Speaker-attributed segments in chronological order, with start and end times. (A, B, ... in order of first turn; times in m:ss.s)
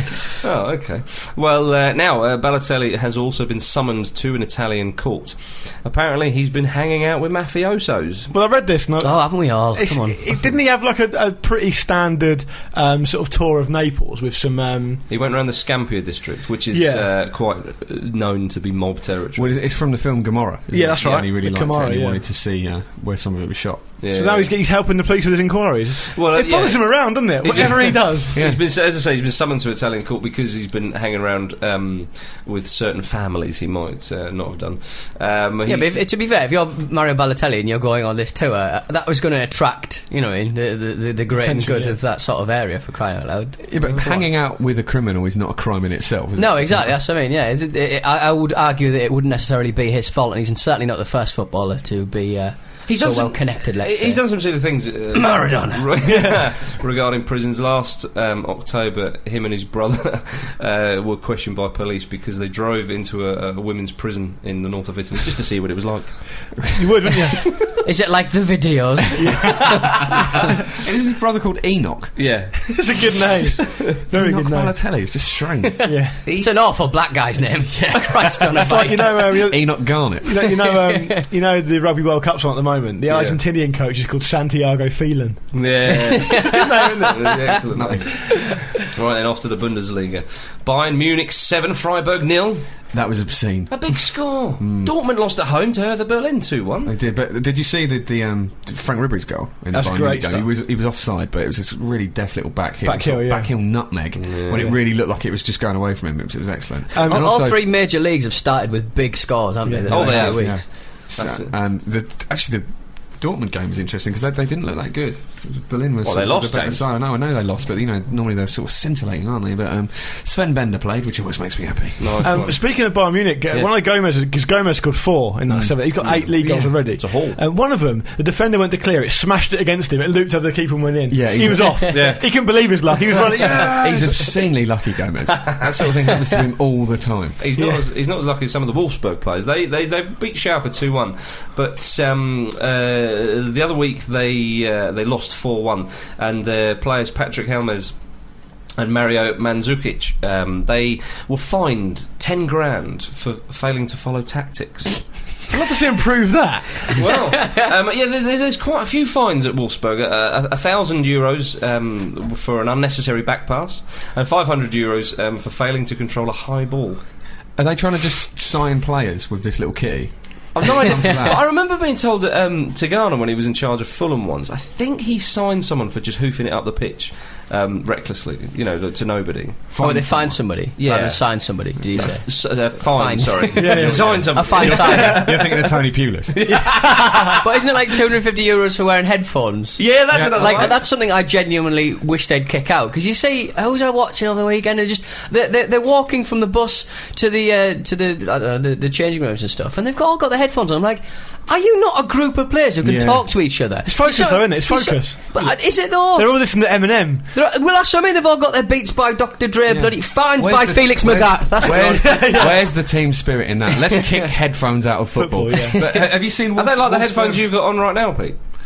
0:00.4-0:08.3 A
0:08.3-0:15.0 B
0:09.0-0:10.2 C
0:15.1-0:19.7 A
0:16.7-0:17.1 B
0:19.4-0:24.0 D
0:20.7-0:22.2 B
0:21.0-0:21.3 A
0:24.0-0:24.5 A
0:24.1-0:28.3 B
0:26.2-0:36.0 A
0:28.3-0:28.6 D
0:35.7-0:44.3 C
0:41.3-0:42.0 B
0:43.7-0:47.0 D
0:46.4-0:55.9 C
0:52.9-1:06.6 A
0:56.0-0:56.4 B
1:06.7-1:07.4 B
1:07.8-1:09.2 C
1:09.2-1:10.0 B
1:10.8-1:12.5 D
1:12.2-1:13.1 A
1:12.7-1:15.1 B
1:14.1-1:15.9 D
1:15.8-1:16.2 B
1:16.1-1:19.4 C
1:16.3-1:16.6 A
1:18.5-1:27.6 B
1:18.7-1:20.5 D
1:23.1-1:23.4 A
1:25.5-1:28.3 A
1:27.7-1:28.5 D
1:28.9-1:32.6 A
1:32.9-1:34.9 D
1:33.7-1:36.9 A
1:36.8-1:47.6 D
1:39.7-1:40.5 B
1:42.8-1:43.8 B
1:44.2-1:44.7 A
1:46.9-1:47.3 B
1:47.1-1:50.6 C
1:49.7-1:50.5 B
1:49.9-1:51.5 A
1:49.9-2:02.4 D
1:56.0-1:56.8 A
2:02.0-2:02.9 A
2:02.2-2:14.4 B
2:05.5-2:06.9 D
2:06.0-2:07.4 A
2:11.1-2:12.1 D
2:11.9-2:12.3 A
2:13.2-2:17.4 D
2:17.4-2:27.9 A
2:17.6-2:17.8 B
2:28.8-2:35.0 A
2:35.5-2:37.1 B
2:36.9-2:47.0 A
2:47.6-2:51.4 D
2:50.5-2:59.7 A
2:59.7-3:00.5 D
2:59.8-3:05.4 C
3:00.8-3:05.4 A
3:03.6-3:05.3 B
3:03.8-3:06.6 D
3:06.4-3:06.7 A
3:06.5-3:07.4 B
3:06.5-3:26.7 C
3:09.8-3:10.8 A
3:10.1-3:10.7 D
3:22.8-3:23.6 D
3:23.8-3:27.3 B
3:27.3-3:32.5 C
3:29.7-3:37.6 D
3:31.6-3:32.7 B
3:35.2-3:35.8 B
3:36.6-3:38.4 A